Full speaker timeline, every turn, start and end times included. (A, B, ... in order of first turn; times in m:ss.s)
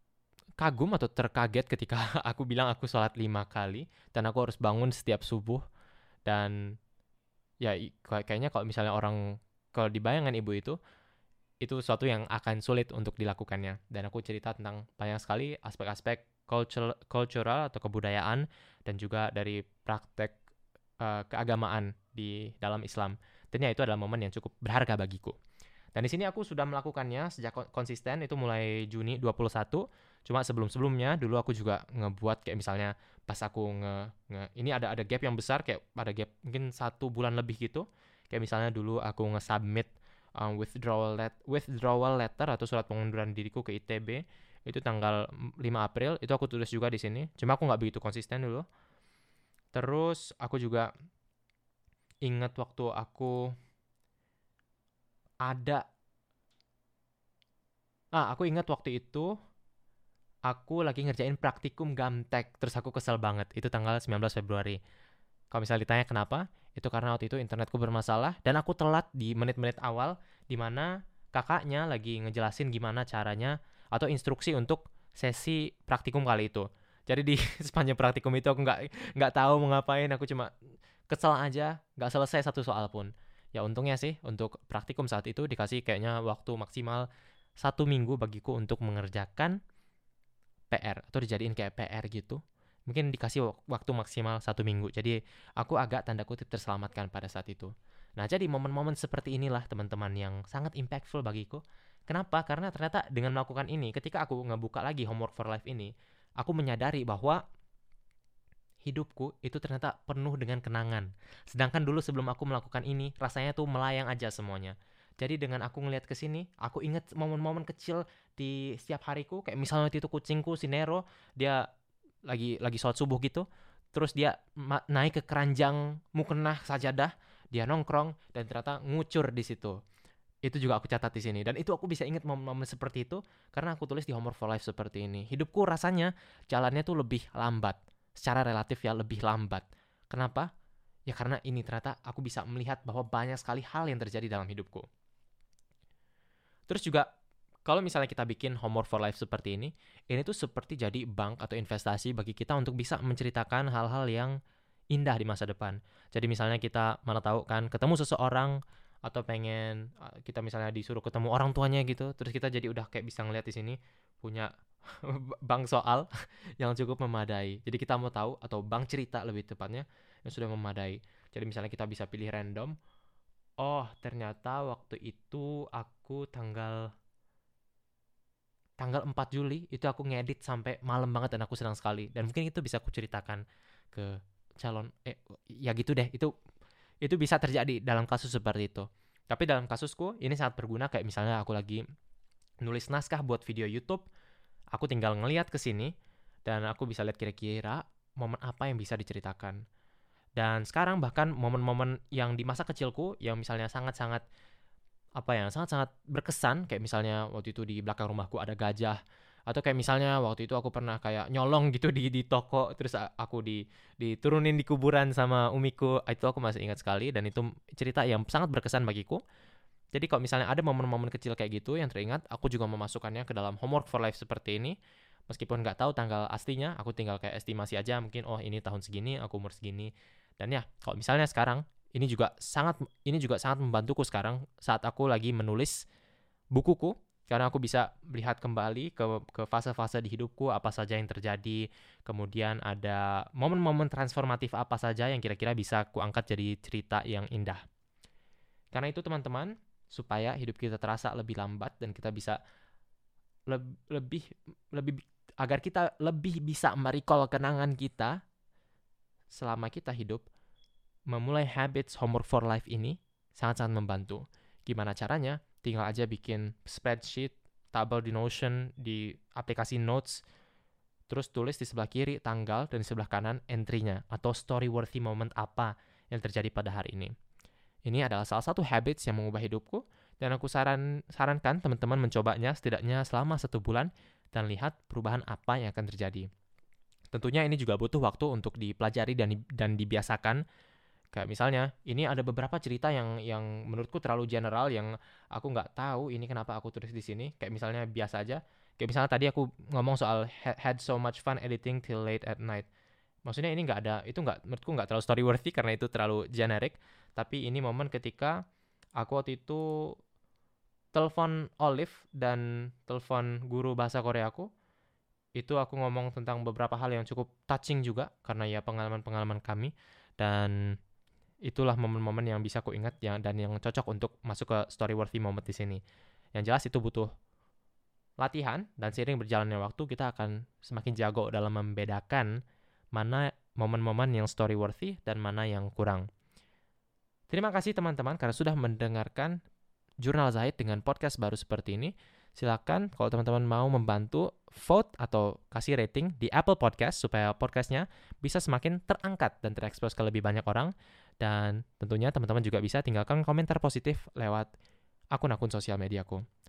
0:00.6-0:05.6 A
0:06.2-0:06.5 A
0:07.6-0:09.2 A
0:09.8-0:10.8 A
0:11.6-0:20.4 A
0:21.0-0:25.4 A
0:25.9-0:48.6 A
0:49.7-0:50.9 A
0:52.2-0:53.5 A
0:55.4-0:55.8 A
0:58.2-0:59.3 A
1:00.5-1:04.8 A
1:05.5-1:20.5 A
1:21.1-1:27.1 A
1:27.6-1:29.6 A
1:30.7-1:47.4 A
1:48.8-2:01.6 A
2:02.3-2:09.8 A
2:10.4-2:20.5 A
2:21.1-2:24.9 A
2:26.7-2:27.1 A
2:27.7-2:34.4 A
2:34.9-2:46.1 A
2:46.6-2:52.7 A
2:53.6-2:56.9 A
2:58.8-3:06.3 A
3:07.0-3:11.8 A
3:12.6-3:14.1 A
3:14.7-3:15.9 A
3:16.4-3:19.6 A
3:20.4-3:24.2 A
3:25.2-3:39.2 A
3:39.9-3:44.7 A
3:45.3-3:55.8 A
3:56.5-4:07.6 A
4:08.7-4:12.4 A
4:13.5-4:18.2 A
4:19.3-4:20.2 A
4:21.1-4:30.2 A
4:31.1-4:37.1 A
4:37.8-4:46.2 A
4:47.1-4:50.4 A
4:51.1-5:02.7 A
5:03.2-5:08.4 A
5:09.0-5:09.9 A
5:10.9-5:14.5 A
5:15.4-5:20.6 A
5:21.4-5:25.8 A
5:26.3-5:27.1 A
5:28.2-5:32.4 A
5:32.9-5:36.1 A
5:37.3-5:39.4 A
5:40.0-5:54.5 A
5:55.1-5:56.2 A